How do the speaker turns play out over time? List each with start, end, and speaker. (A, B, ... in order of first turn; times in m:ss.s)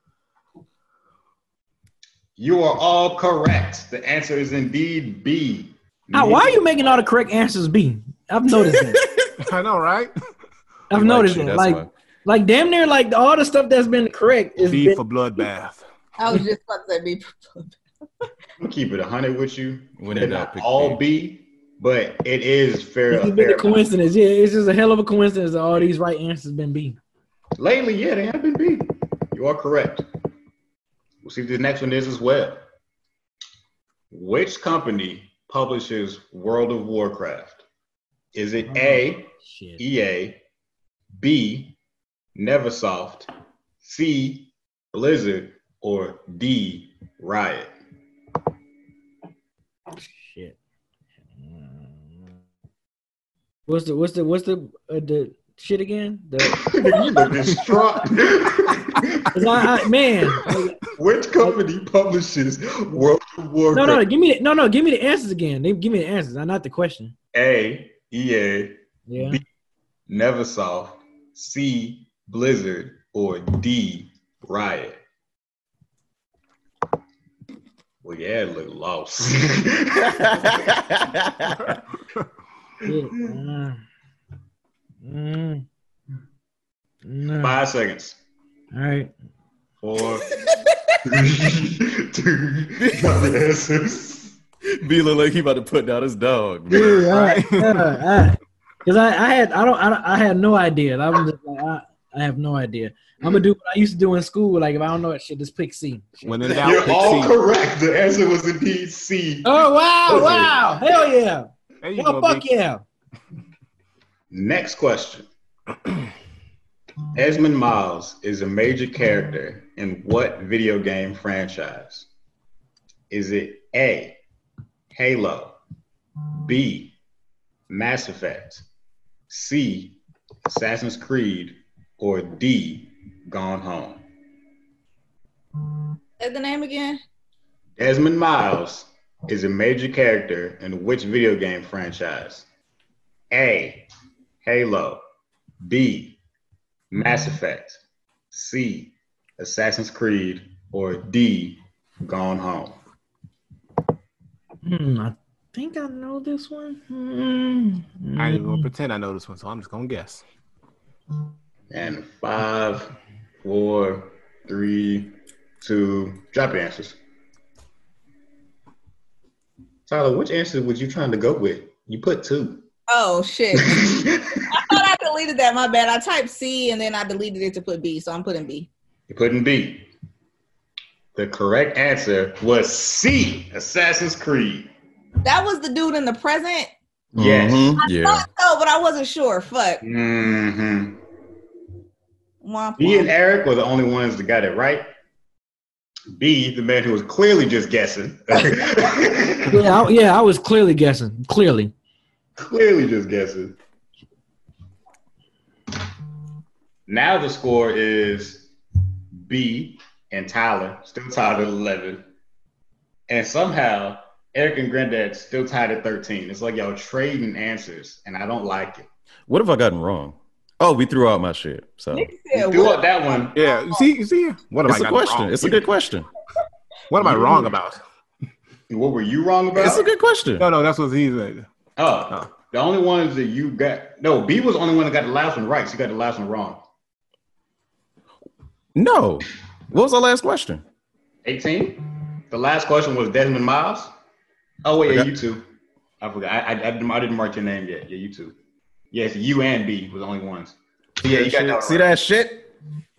0:02.4-0:07.0 A
0:06.1-0:09.1 B
0:09.4-0:10.1 C
0:10.9-0:15.0 B
0:10.9-0:11.9 D
0:14.6-0:15.8 C
0:16.2-0:17.8 E
0:18.6-0:23.8 A
0:20.0-0:21.0 D
0:23.1-0:27.0 B
0:27.6-0:30.0 A
0:31.2-0:32.6 A
0:34.1-0:37.6 A
0:38.3-0:40.4 A
0:38.7-0:39.8 B
0:41.2-0:41.8 A
0:42.4-0:43.3 A
0:43.8-0:47.7 A
0:50.0-0:50.6 B
0:51.4-0:52.2 B
0:53.7-0:57.3 B
0:56.5-1:04.0 A
0:59.3-1:00.8 B
1:03.7-1:07.1 B
1:07.3-1:09.4 A
1:09.1-1:09.4 B
1:10.1-1:15.0 A
1:18.0-1:20.7 A
1:20.2-1:21.8 D
1:22.8-1:23.8 B
1:25.0-1:25.7 B
1:27.0-1:27.6 B
1:27.4-1:28.2 A
1:28.7-1:29.1 B
1:29.8-1:30.4 A
1:31.0-1:34.4 A
1:32.8-1:33.2 D
1:34.7-1:37.4 D
1:36.7-1:46.6 B
1:37.1-1:37.9 C
1:46.3-1:47.4 C
1:46.6-1:50.7 A
1:49.4-1:52.8 B
1:51.8-1:52.5 C
1:54.3-1:55.3 A
1:57.2-2:02.1 A
2:03.1-2:04.2 A
2:04.9-2:05.6 A
2:06.4-2:07.0 A
2:07.7-2:08.6 A
2:09.3-2:14.0 A
2:16.2-2:17.0 E
2:17.8-2:22.5 A
2:23.3-2:23.9 A
2:24.4-2:25.0 A
2:25.6-2:26.2 A
2:26.9-2:27.8 A
2:28.3-2:32.8 A
2:34.6-2:38.7 B
2:38.2-2:40.2 C
2:41.7-2:42.9 A
2:43.4-2:47.0 A
2:49.9-2:52.6 A
2:52.9-2:53.9 E
2:53.6-2:54.6 A
2:54.5-2:58.7 E
2:59.1-2:59.9 A
3:01.2-3:04.7 A
3:05.2-3:06.7 E
3:07.1-3:07.8 A
3:07.2-3:08.2 D
3:07.8-3:09.8 E
3:09.8-3:11.0 A
3:12.4-3:13.1 E
3:12.8-3:14.9 A
3:16.1-3:19.8 A
3:19.5-3:21.7 B
3:22.4-3:23.6 A
3:26.9-3:28.5 A
3:29.2-3:32.0 A
3:33.1-3:38.9 A
3:39.3-3:42.1 D
3:41.9-3:42.9 E
3:42.3-3:43.4 A
3:43.4-3:45.5 C
3:43.4-3:43.8 E
3:44.6-3:46.1 D
3:46.9-3:47.8 C
3:47.0-3:47.5 A
3:48.7-3:49.9 A
3:49.6-3:50.5 D
3:50.4-3:51.5 C
3:51.8-3:56.6 A
3:58.8-4:00.6 D
4:01.2-4:03.9 A
4:04.6-4:05.4 A
4:06.0-4:08.4 A
4:08.9-4:11.9 A
4:11.0-4:12.5 D